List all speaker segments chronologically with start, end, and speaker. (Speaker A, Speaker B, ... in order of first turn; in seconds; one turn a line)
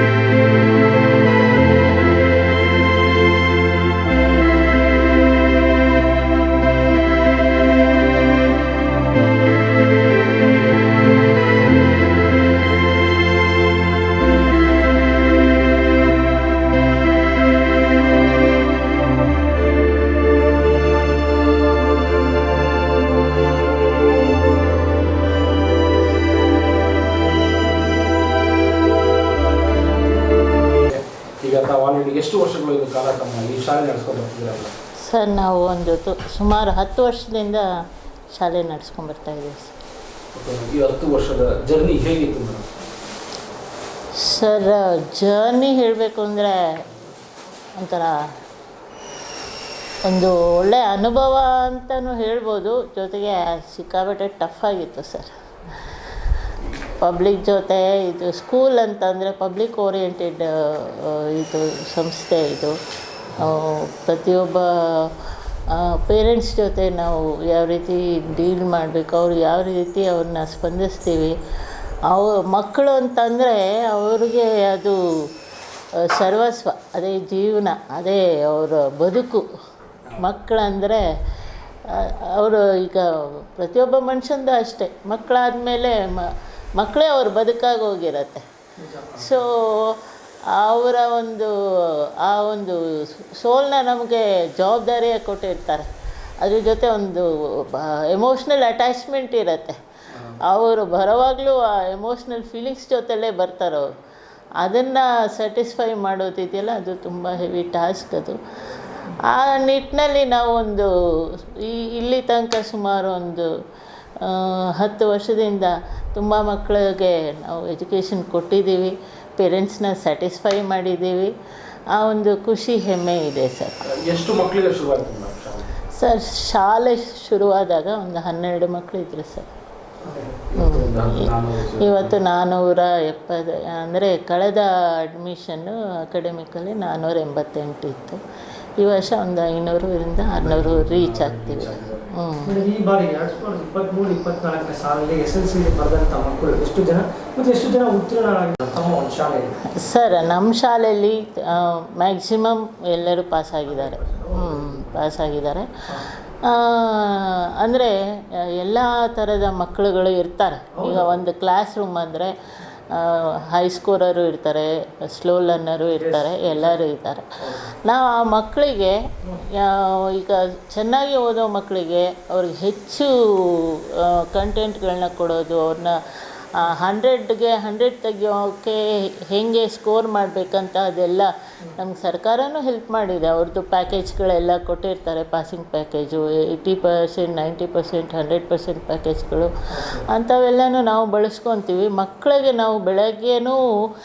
Speaker A: 30.9-34.7
Speaker B: 35.0-39.8
Speaker A: 40.3-42.7
Speaker B: 44.1-46.9
Speaker B: 47.8-48.3
Speaker B: 50.0-62.8
Speaker B: 63.3-71.4
Speaker B: 72.1-75.3
Speaker B: 76.0-79.5
Speaker B: 80.0-81.1
Speaker B: 81.8-88.5
Speaker C: 88.8-89.3
Speaker B: 89.1-95.9
Speaker B: 96.4-103.9
Speaker B: 104.6-108.4
Speaker B: 109.0-113.5
Speaker B: 114.2-121.3
Speaker B: 121.9-123.9
Speaker A: 123.9-125.7
Speaker B: 125.9-129.5
Speaker C: 130.0-130.3
Speaker A: 130.4-132.2
Speaker B: 130.6-138.2
Speaker B: 138.8-142.6
Speaker A: 140.4-142.1
Speaker C: 142.4-149.6
Speaker B: 149.7-193.7
Speaker C: 153.7-154.9
Speaker C: 160.7-161.2
Speaker C: 166.0-166.8
Speaker C: 167.4-167.7
Speaker C: 189.7-190.1